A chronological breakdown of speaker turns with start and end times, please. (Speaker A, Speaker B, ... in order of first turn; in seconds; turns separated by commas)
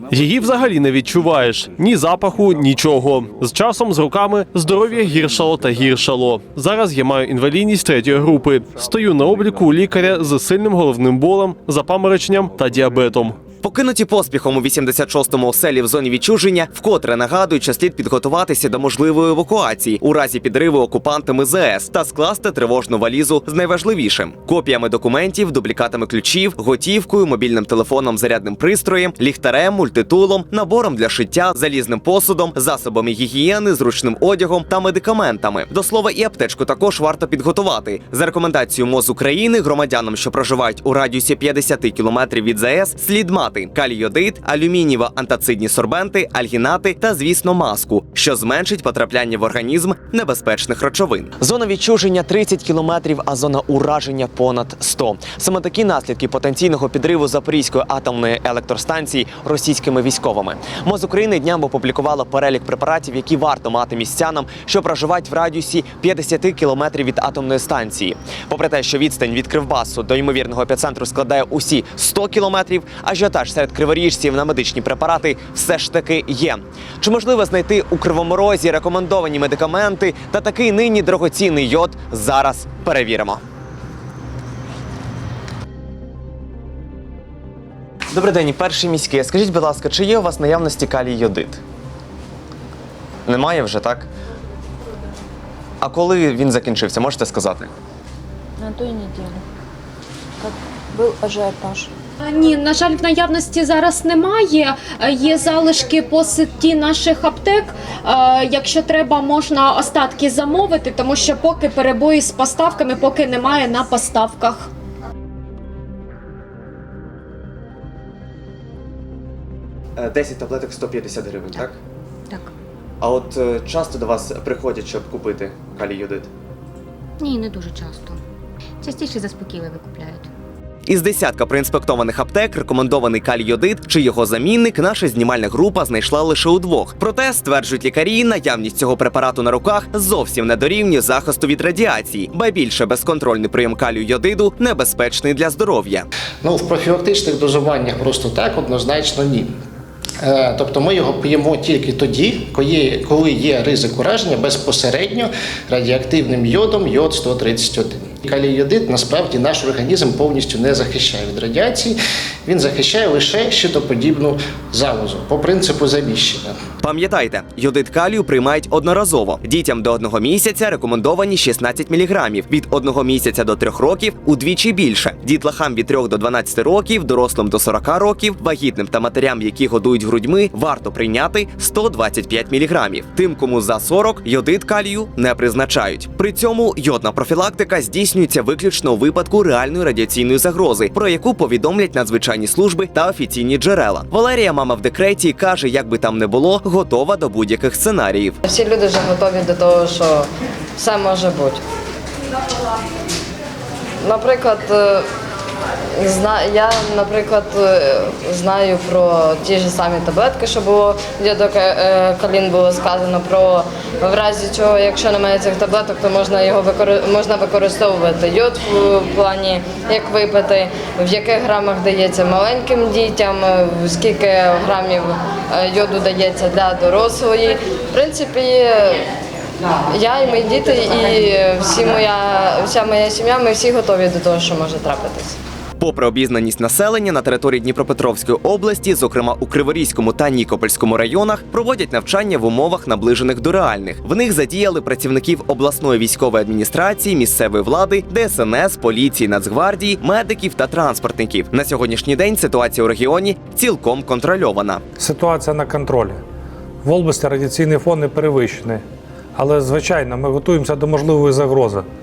Speaker A: 0.1-13.3, Speaker B: 13.6-83.4, Speaker B: 88.1-91.6, Speaker B: 93.2-94.1, Speaker B: 95.8-97.7, Speaker C: 98.6-99.4, Speaker C: 100.4-101.9, Speaker D: 102.2-114.7, Speaker B: 120.0-121.8, Speaker B: 123.0-126.3, Speaker E: 127.2-128.2, Speaker E: 128.8-130.3, Speaker B: 130.9-146.1, Speaker F: 146.4-149.5, Speaker F: 150.2-166.5, Speaker B: 166.8-198.4, Speaker G: 198.4-201.6, Speaker G: 204.0-205.0, Speaker G: 206.0-229.0, Speaker G: 229.9-235.4, Speaker B: 235.8-254.8, Speaker H: 255.0-256.2, Speaker H: 256.8-258.8, Speaker H: 259.4-261.8